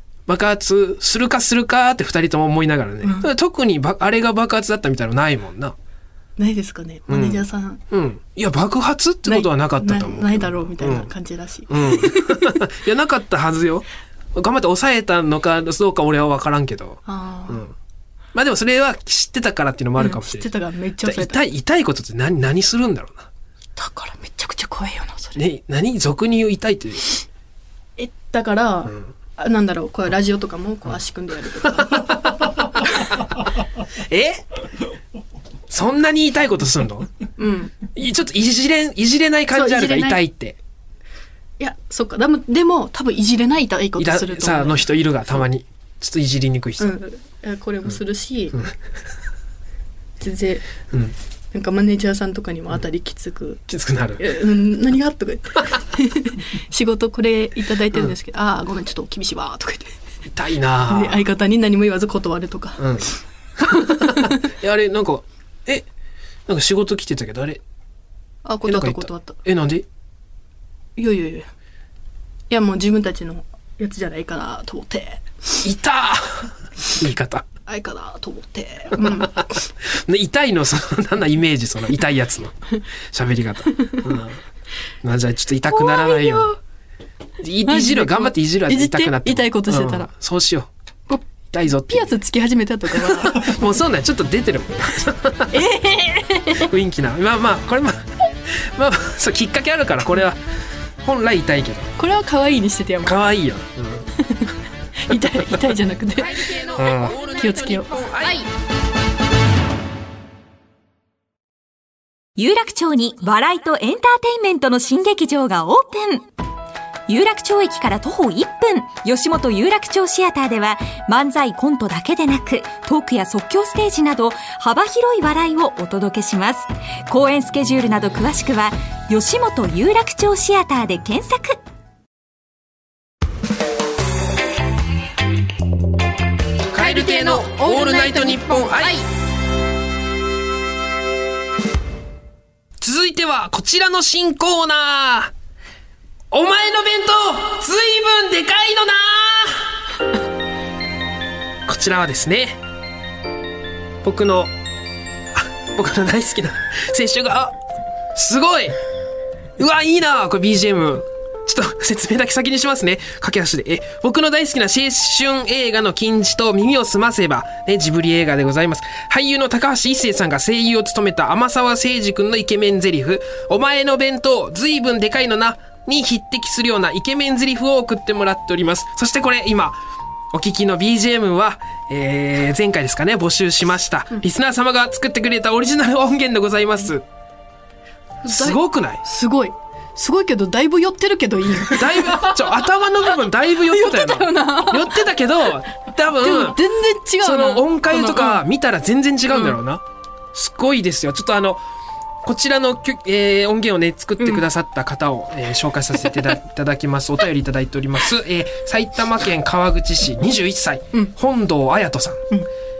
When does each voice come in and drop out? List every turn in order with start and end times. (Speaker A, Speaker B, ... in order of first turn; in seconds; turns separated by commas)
Speaker A: 0.3-5.7, Speaker B: 3.0-3.3, Speaker B: 6.4-7.8, Speaker A: 7.1-11.1, Speaker B: 9.2-12.6, Speaker A: 11.7-17.7, Speaker B: 17.1-17.6, Speaker A: 18.3-20.5, Speaker B: 20.0-21.4, Speaker A: 21.0-23.3, Speaker B: 23.8-25.4, Speaker A: 25.4-27.1, Speaker B: 28.0-32.9, Speaker A: 28.9-29.1, Speaker A: 31.7-33.3, Speaker A: 34.0-34.5, Speaker A: 35.7-37.1, Speaker B: 37.4-37.8, Speaker A: 37.9-40.6, Speaker B: 39.5-40.2, Speaker B: 41.6-44.9, Speaker A: 44.0-46.9, Speaker B: 46.8-48.6, Speaker B: 50.2-50.6, Speaker B: 51.5-53.6, Speaker A: 53.7-54.3, Speaker B: 54.2-60.0, Speaker A: 60.3-61.2, Speaker B: 60.9-63.0, Speaker A: 62.8-65.9, Speaker B: 63.6-64.4, Speaker A: 66.5-67.6, Speaker B: 68.4-69.4, Speaker A: 68.7-69.8, Speaker B: 71.0-71.5, Speaker B: 72.5-75.6, Speaker A: 75.6-77.5, Speaker B: 77.7-79.5, Speaker A: 79.0-82.5, Speaker A: 83.1-84.4, Speaker B: 83.8-84.2, Speaker A: 85.0-86.5, Speaker B: 85.7-86.6, Speaker A: 87.4-90.7, Speaker B: 87.6-90.1, Speaker A: 91.5-92.1, Speaker B: 91.9-93.7, Speaker A: 93.0-95.6, Speaker B: 95.5-96.7, Speaker A: 96.5-100.4, Speaker A: 101.0-101.9, Speaker B: 102.0-103.2, Speaker A: 103.0-104.1, Speaker B: 104.1-108.3, Speaker A: 106.2-108.5, Speaker C: 112.4-116.3, Speaker C: 117.1-131.6, Speaker A: 136.7-139.0, Speaker C: 136.8-139.0, Speaker A: 142.8-145.3, Speaker A: 146.3-149.7, Speaker A: 151.7-152.6, Speaker A: 154.0-154.5, Speaker A: 155.3-157.5, Speaker A: 158.1-158.7, Speaker A: 159.6-179.8, Speaker A: 180.3-187.0, Speaker B: 188.2-192.6, Speaker A: 188.2-189.0, Speaker A: 191.6-196.6, Speaker B: 193.4-195.1, Speaker B: 196.1-198.4, Speaker A: 197.2-201.6, Speaker B: 199.3-199.6, Speaker A: 202.2-212.2, Speaker B: 206.0-206.3